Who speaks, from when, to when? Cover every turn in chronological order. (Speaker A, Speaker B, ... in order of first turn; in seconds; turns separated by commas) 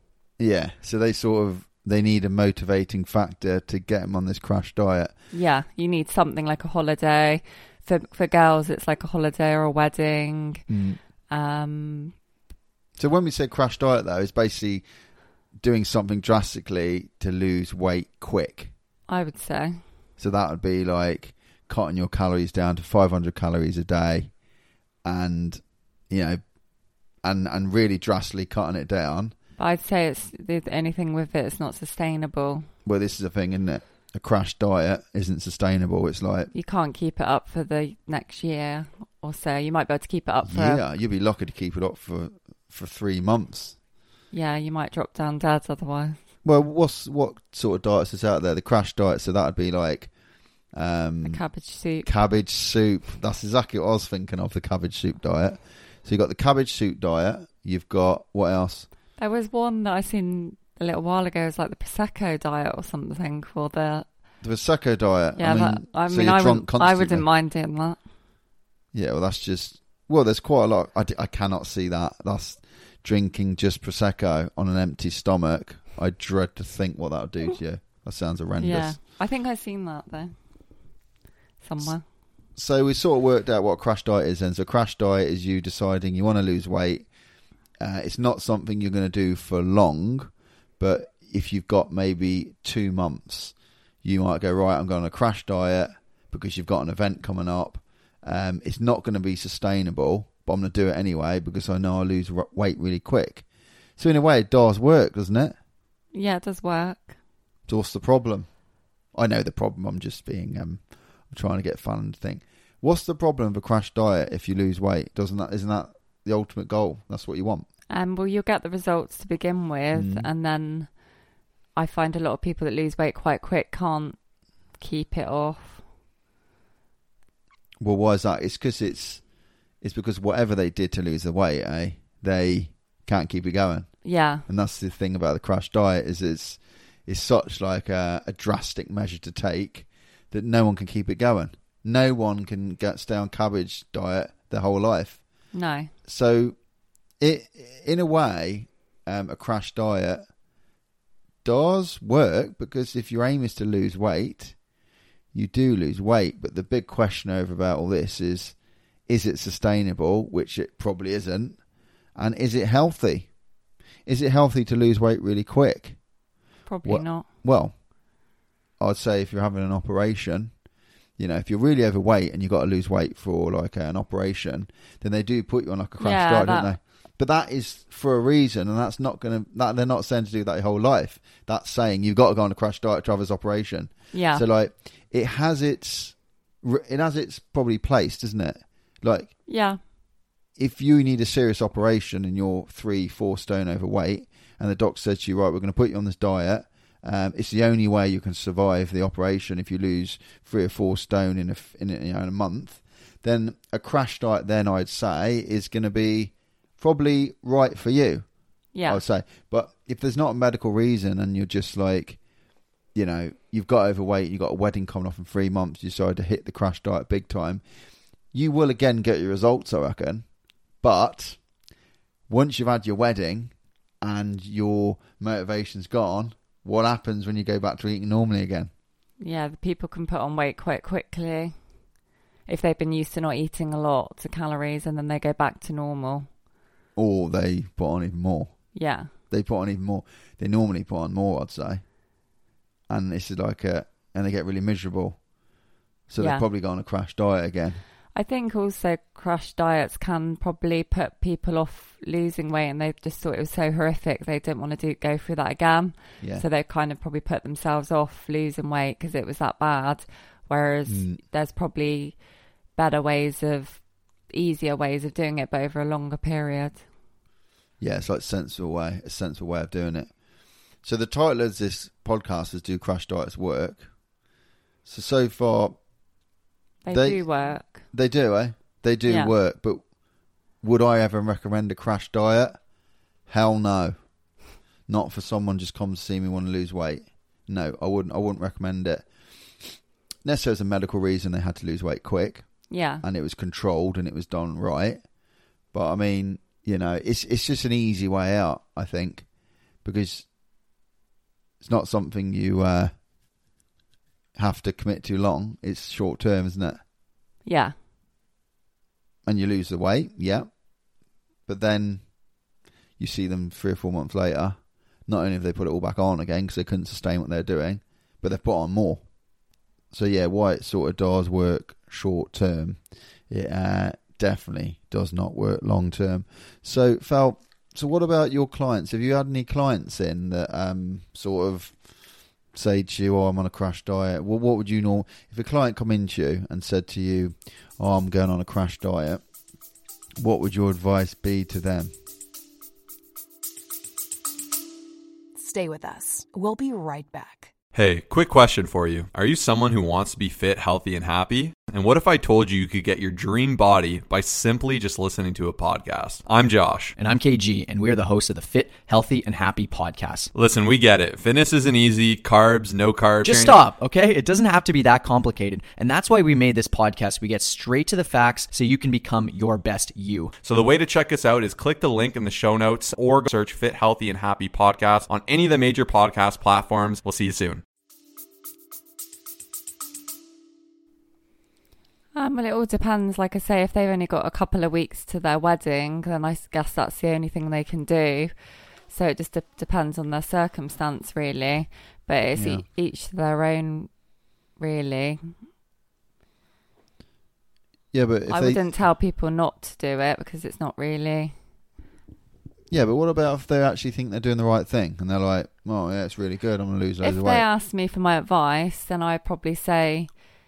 Speaker A: 0.4-5.1, Speaker B: 5.3-10.6, Speaker A: 10.7-11.0, Speaker B: 11.3-12.1, Speaker A: 12.9-14.8, Speaker A: 15.5-18.7, Speaker B: 19.1-19.8, Speaker A: 20.2-24.3, Speaker A: 25.0-26.4, Speaker A: 27.2-29.3, Speaker B: 29.6-32.7, Speaker A: 32.8-36.5, Speaker B: 36.5-40.8, Speaker A: 40.4-43.8, Speaker B: 44.3-46.2, Speaker A: 46.4-50.1, Speaker A: 50.7-51.4, Speaker B: 51.2-52.1, Speaker A: 52.0-58.9, Speaker B: 59.2-64.1, Speaker A: 64.4-67.3, Speaker B: 65.4-68.0, Speaker A: 68.9-79.0, Speaker B: 78.6-80.3, Speaker B: 81.6-82.0, Speaker A: 82.5-87.1, Speaker A: 87.8-103.5, Speaker A: 104.0-105.5, Speaker B: 106.1-107.1, Speaker A: 107.7-108.5, Speaker A: 109.1-117.7, Speaker B: 117.9-121.0, Speaker A: 119.9-120.3, Speaker B: 121.8-124.2, Speaker B: 124.8-125.8, Speaker A: 127.8-129.2, Speaker A: 129.8-145.2, Speaker B: 134.0-134.4, Speaker B: 145.5-145.9, Speaker A: 146.0-146.6, Speaker A: 147.2-150.2, Speaker A: 151.4-154.6, Speaker A: 155.3-158.6, Speaker A: 159.1-161.6, Speaker A: 162.1-163.3, Speaker A: 164.1-166.0, Speaker B: 166.7-167.2, Speaker A: 166.8-167.8, Speaker A: 168.8-170.5, Speaker A: 171.2-189.3, Speaker B: 176.0-176.7, Speaker B: 184.1-184.4, Speaker B: 189.5-189.8, Speaker A: 190.6-208.3, Speaker B: 208.7-209.0, Speaker A: 208.8-212.2, Speaker A: 212.9-217.6, Speaker A: 218.3-220.3, Speaker A: 220.8-221.4, Speaker A: 222.3-228.7, Speaker B: 229.2-231.6, Speaker B: 232.4-236.3, Speaker A: 236.9-241.8, Speaker B: 238.7-239.1, Speaker A: 242.9-245.2, Speaker A: 246.1-247.8, Speaker B: 246.2-246.4, Speaker B: 248.1-262.2, Speaker A: 256.2-256.4, Speaker A: 260.9-261.2, Speaker B: 262.7-266.9, Speaker A: 267.8-273.9, Speaker A: 274.8-275.8, Speaker B: 276.8-277.8, Speaker A: 276.9-279.9, Speaker B: 279.1-279.3, Speaker A: 280.6-282.6, Speaker A: 283.3-295.1, Speaker B: 292.7-293.0, Speaker A: 295.7-299.3, Speaker A: 299.8-300.3, Speaker A: 301.6-302.9, Speaker A: 304.4-306.8, Speaker B: 307.4-307.7, Speaker A: 309.2-310.8, Speaker A: 311.4-312.3, Speaker A: 313.0-319.1, Speaker A: 319.9-339.2, Speaker A: 340.2-341.9, Speaker C: 345.3-347.5, Speaker D: 347.7-356.9, Speaker E: 356.9-360.3, Speaker D: 360.3-363.6, Speaker E: 363.2-370.4, Speaker D: 370.4-377.6, Speaker B: 382.1-395.4, Speaker A: 392.3-392.6, Speaker A: 397.9-398.6, Speaker B: 398.3-401.4, Speaker A: 402.7-407.4, Speaker B: 407.0-410.3